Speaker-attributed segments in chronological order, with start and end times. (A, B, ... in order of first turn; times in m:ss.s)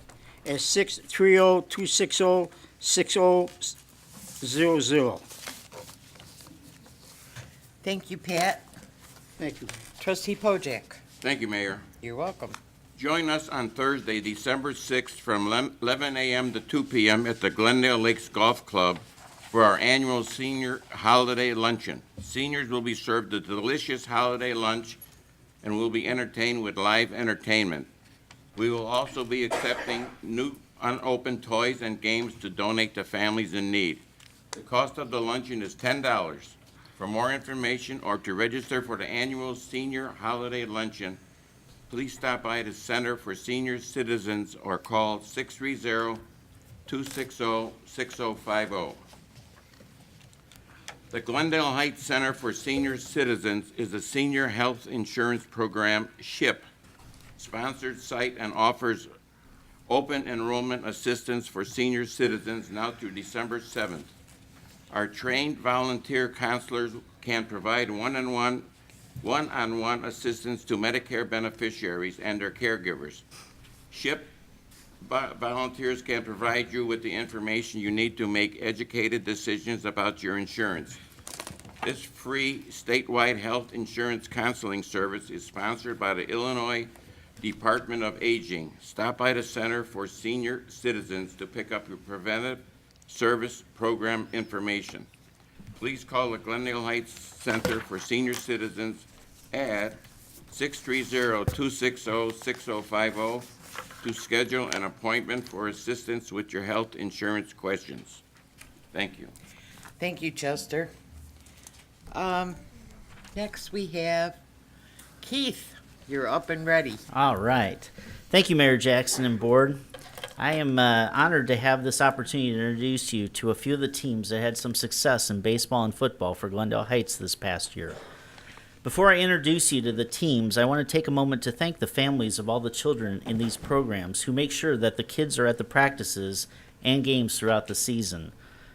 0:00.4-0:03.8 A
0:04.4-0:05.2 A
0:07.8-0:08.6 B
0:09.4-0:09.7 A
0:10.0-0:11.0 B
0:11.2-0:11.9 C
0:12.0-0:12.6 B
0:13.0-0:25.0 C
0:25.6-0:27.9 C
0:28.6-0:41.2 C
0:41.9-0:46.2 C
0:46.9-0:49.0 C
0:51.1-0:56.6 C
0:57.4-0:59.1 C
0:59.9-1:04.1 C
1:04.9-1:08.7 C
1:09.2-1:13.2 C
1:13.9-1:14.3 C
1:15.0-1:21.0 C
1:21.8-1:35.1 C
1:35.8-1:43.5 C
1:44.0-1:48.2 C
1:48.9-1:49.3 C
1:50.0-1:50.9 B
1:52.1-1:52.6 B
1:53.3-1:54.4 B
1:55.2-1:57.0 B
1:57.1-1:59.8 D
2:00.4-2:08.0 D
2:08.8-2:18.4 D